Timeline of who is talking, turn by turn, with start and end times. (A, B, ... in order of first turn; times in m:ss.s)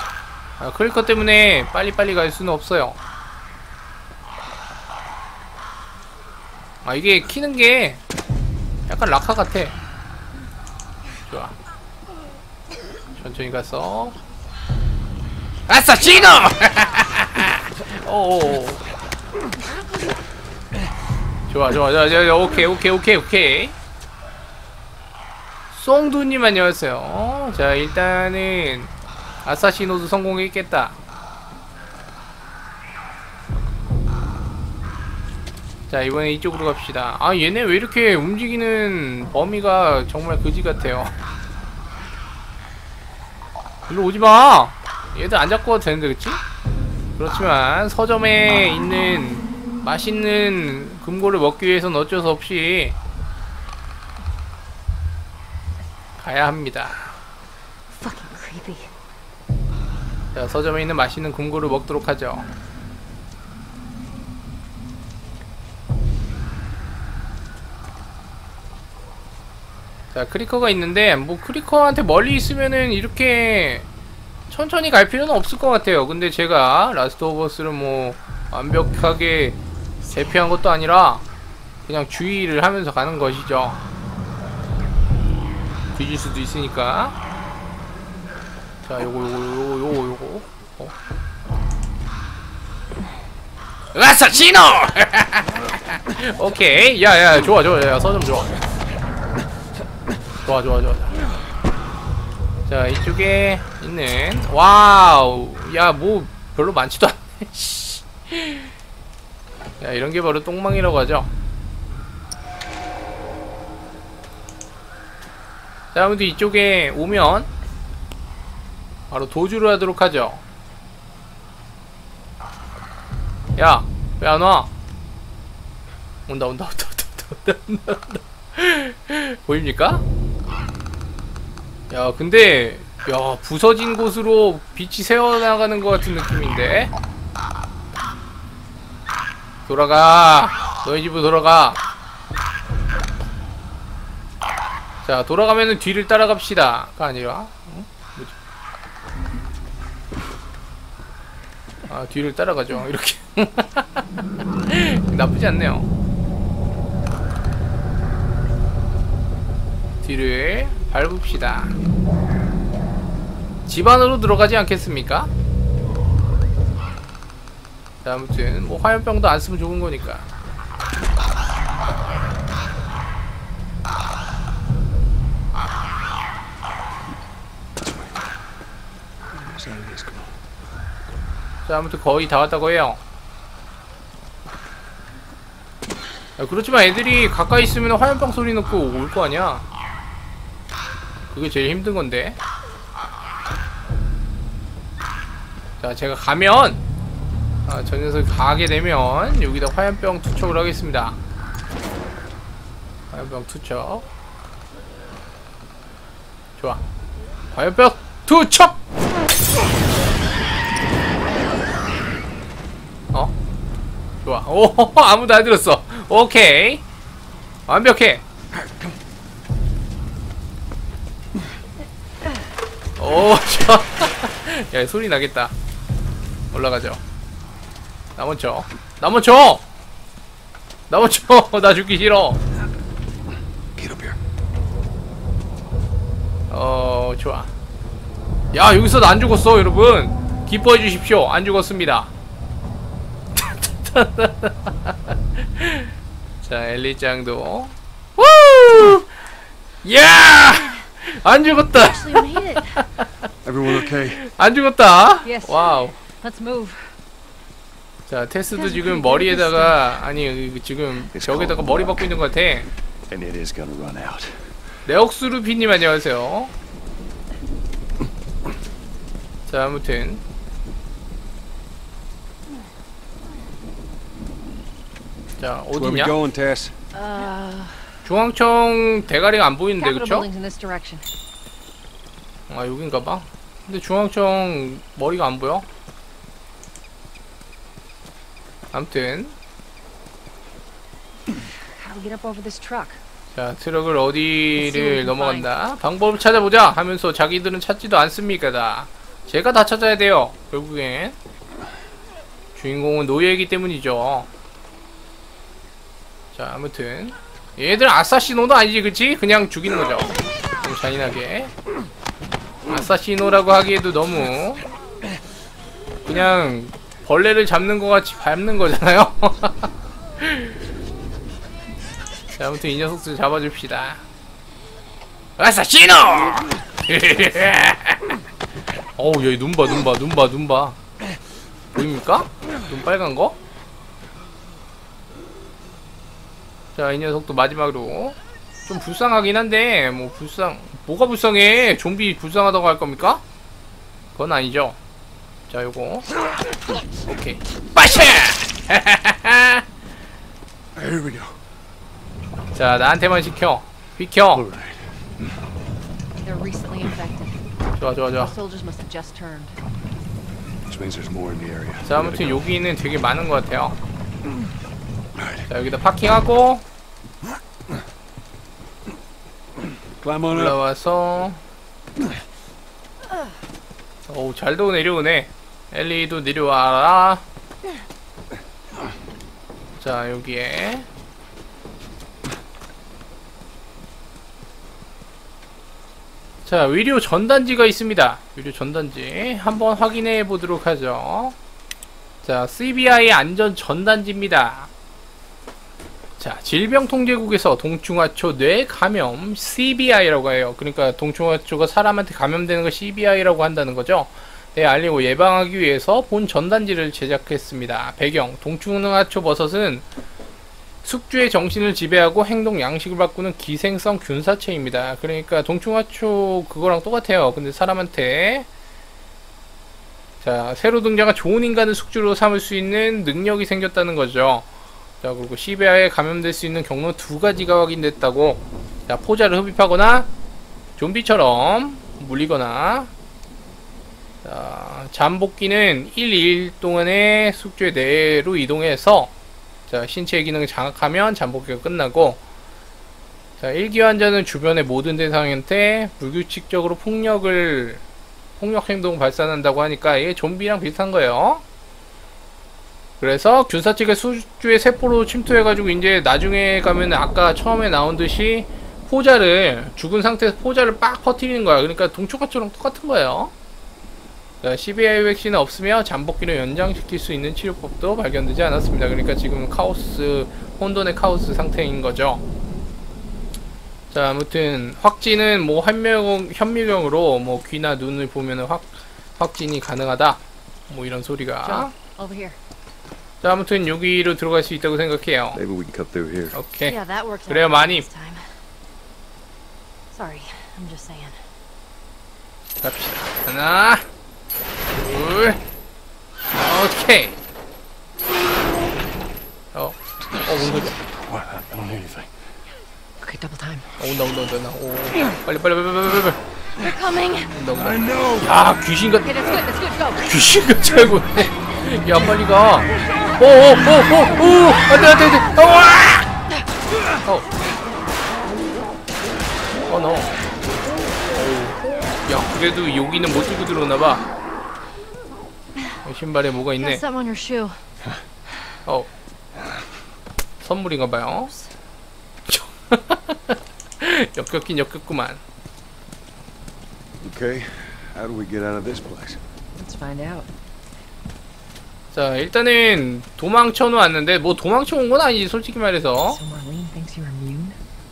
0:00.6-0:03.0 A
0:06.8-0:08.0 A
0:08.9-0:09.8 A
0:11.3-0:11.5 A
0:13.2-0:14.2 A
0:15.7-0:18.8 A
0:21.5-0:23.7 A
0:25.7-0:28.9 A
0:29.4-0:31.0 A
0:35.9-0:41.1 A
0:43.9-0:46.4 A
0:47.2-0:53.0 A
0:56.2-0:57.1 A
0:57.9-0:58.9 B
1:00.3-1:02.5 A
1:10.1-1:13.8 A
1:14.5-1:19.6 A
1:20.1-1:21.2 A
1:21.9-1:23.8 A
1:25.9-1:27.1 A
1:28.8-1:30.9 A
1:33.9-1:38.5 A
1:40.4-1:41.1 A
1:42.7-1:48.7 A
1:49.8-1:51.3 A
1:55.9-1:57.5 A
1:59.1-2:00.4 A
2:03.6-2:04.7 A
2:06.3-2:10.0 A
2:11.9-2:16.9 A
2:19.7-2:21.8 A
2:25.0-2:28.3 A
2:31.9-2:35.9 A
2:40.0-2:41.7 A
2:43.7-2:45.3 A
2:48.0-2:50.3 A
2:59.3-3:00.3 C
3:01.6-3:03.0 A
3:06.4-3:09.6 A
3:11.3-3:12.4 A
3:15.8-3:16.8 A
3:17.7-3:21.2 A
3:23.1-3:24.0 A
3:27.5-3:28.8 A
3:34.2-3:36.8 A
3:37.7-3:38.2 A
3:43.0-3:45.5 A
3:46.5-3:47.0 A
3:48.2-3:49.6 A
3:50.9-3:52.4 A
3:53.8-3:54.2 C
3:56.5-3:57.5 A
3:58.5-4:02.1 A
4:03.6-4:04.9 A
4:05.6-4:05.9 A
4:06.4-4:09.1 A
4:09.8-4:13.1 A
4:12.0-4:12.7 B
4:13.4-4:14.2 C
4:13.7-4:16.0 A
4:15.2-4:16.9 D
4:18.1-4:22.7 A
4:18.6-4:19.9 B
4:21.1-4:22.0 C
4:23.1-4:24.5 C
4:24.8-4:26.5 A
4:29.5-4:30.2 A
4:35.4-4:36.2 A
4:35.7-4:36.7 C
4:36.9-4:37.9 D
4:38.0-4:40.3 A
4:39.8-4:41.0 D
4:42.5-4:45.6 A
4:48.7-4:49.3 A
4:51.6-4:53.0 D
4:53.3-5:01.2 A
4:54.5-4:55.5 D
5:02.6-5:04.3 A
5:06.3-5:11.5 A
5:12.7-5:14.6 A
5:16.0-5:20.5 A
5:22.4-5:24.0 A
5:25.4-5:28.2 A
5:29.0-5:30.8 A
5:31.7-5:33.4 A
5:36.7-5:43.2 A
5:44.1-5:44.8 A
5:45.5-5:46.1 A
5:47.1-5:49.6 A
5:50.7-5:51.4 C
5:52.5-5:54.4 A
5:54.3-5:55.1 C
5:56.2-5:57.4 D
5:57.8-5:58.3 A
5:58.1-5:59.6 D
6:00.6-6:02.5 C
6:01.8-6:03.8 A
6:05.1-6:05.5 C
6:05.5-6:06.6 A
6:09.6-6:10.6 C
6:10.3-6:11.4 A
6:14.1-6:17.2 A
6:19.8-6:20.9 A
6:26.4-6:31.4 A
6:32.2-6:34.7 A
6:36.2-6:49.8 A
6:50.8-6:58.5 A
7:00.2-7:04.4 A
7:05.0-7:10.1 A
7:10.8-7:12.9 A
7:14.2-7:19.1 A
7:19.7-7:22.2 A
7:23.4-7:27.8 A
7:28.4-7:31.4 A
7:33.0-7:43.3 A
7:44.4-7:52.2 A
7:53.9-8:01.7 A
8:01.4-8:02.4 D
8:03.2-8:05.4 A
8:05.3-8:06.4 C
8:06.3-8:07.8 A
8:06.6-8:08.4 B
8:09.9-8:11.2 B
8:12.6-8:13.8 A
8:14.7-8:15.4 A
8:16.3-8:17.2 A
8:19.5-8:20.7 A
8:20.1-8:22.1 C
8:23.0-8:23.7 D
8:23.8-8:26.2 A
8:26.6-8:27.3 B
8:27.3-8:29.4 A
8:27.5-8:28.3 C
8:29.0-8:30.1 D
8:30.0-8:36.1 A
8:39.7-8:40.2 A
8:41.1-8:44.0 A
8:45.8-8:46.8 A
8:46.6-8:47.6 B
8:50.4-8:51.3 A
8:51.1-8:51.5 B
8:52.3-8:55.2 A
8:57.0-8:59.2 C
8:59.6-9:00.3 D
9:01.9-9:06.2 A
9:06.0-9:07.6 D